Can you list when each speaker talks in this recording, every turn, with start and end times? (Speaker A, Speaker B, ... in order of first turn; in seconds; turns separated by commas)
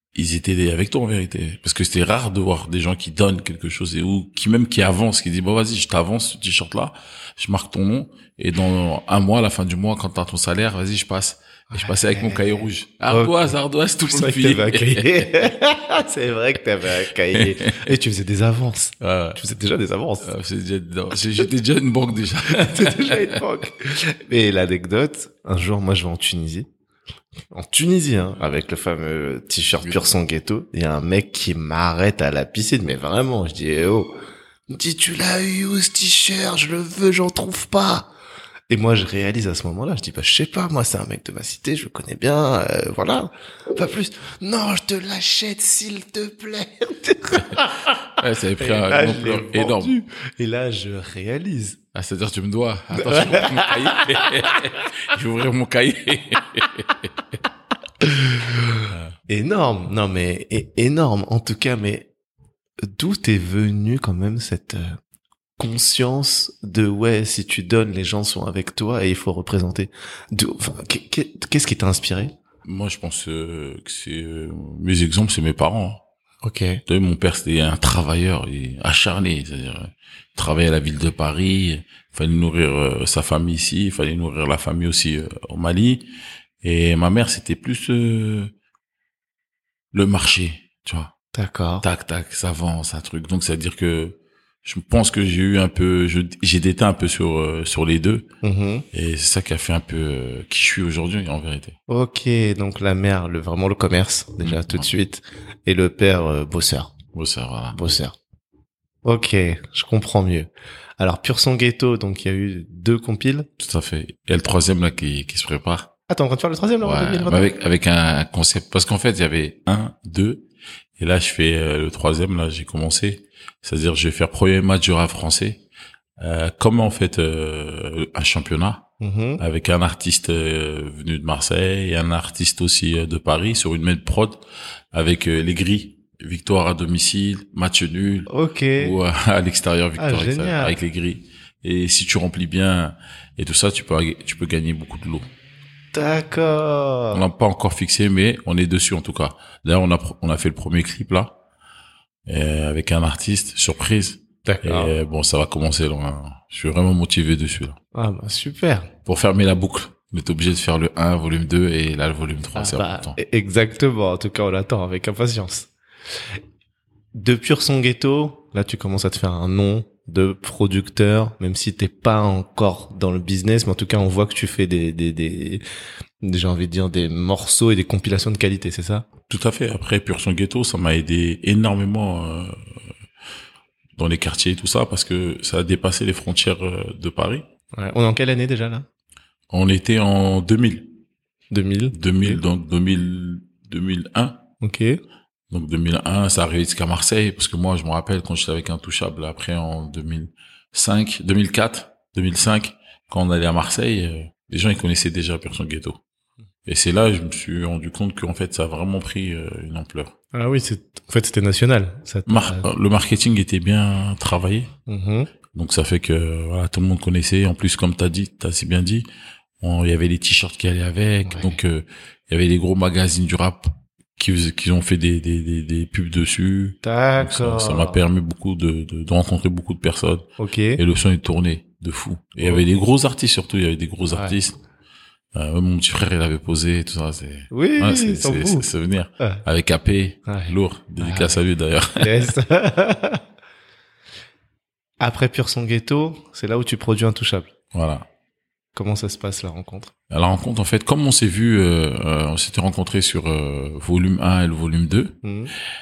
Speaker A: 0.1-15.3, Speaker B: 11.7-13.5, Speaker B: 14.1-20.3, Speaker A: 17.3-17.9, Speaker A: 19.0-19.4, Speaker A: 20.2-23.4, Speaker B: 22.5-26.7, Speaker B: 27.5-34.1, Speaker B: 34.7-38.1, Speaker B: 38.7-51.8, Speaker A: 48.2-49.9, Speaker A: 51.9-57.4, Speaker B: 52.9-54.9, Speaker B: 58.0-62.1, Speaker B: 62.8-65.0, Speaker B: 65.6-72.3, Speaker A: 72.6-76.0, Speaker B: 76.4-76.8, Speaker A: 76.9-86.1, Speaker A: 86.6-88.5, Speaker A: 89.9-91.1, Speaker B: 91.3-91.9, Speaker A: 91.8-98.3, Speaker B: 98.4-98.9, Speaker A: 98.9-101.8, Speaker B: 101.9-106.9, Speaker A: 104.4-104.9, Speaker A: 107.1-107.8, Speaker B: 107.7-108.2, Speaker B: 109.0-113.5, Speaker A: 113.6-115.9, Speaker B: 116.1-117.5, Speaker A: 116.8-120.5, Speaker A: 121.0-125.6, Speaker A: 126.2-128.9, Speaker B: 129.0-129.4, Speaker A: 129.4-145.3, Speaker B: 138.3-139.0, Speaker B: 140.0-140.8, Speaker B: 145.9-147.2, Speaker A: 147.1-151.4, Speaker A: 152.3-157.8, Speaker B: 154.4-154.9, Speaker B: 157.9-158.9, Speaker A: 159.1-163.2, Speaker B: 162.6-165.7, Speaker B: 167.1-175.6, Speaker B: 176.2-179.1, Speaker A: 179.3-182.8, Speaker A: 184.0-187.4, Speaker B: 187.8-188.9, Speaker A: 189.5-190.9, Speaker B: 191.5-192.4, Speaker A: 191.9-194.4, Speaker B: 194.6-195.0, Speaker A: 195.5-206.0, Speaker A: 206.7-210.1, Speaker B: 210.3-212.7, Speaker A: 212.3-214.7, Speaker B: 214.9-215.3, Speaker A: 215.5-219.1, Speaker A: 219.6-234.6, Speaker B: 221.3-221.6, Speaker B: 226.8-228.0, Speaker B: 230.4-230.8, Speaker B: 234.1-234.4, Speaker A: 235.3-242.3, Speaker B: 237.5-238.7, Speaker B: 240.3-241.4, Speaker B: 242.0-243.2, Speaker B: 245.0-247.5, Speaker A: 247.7-248.1, Speaker B: 248.8-249.9, Speaker A: 250.1-255.2, Speaker B: 255.2-255.5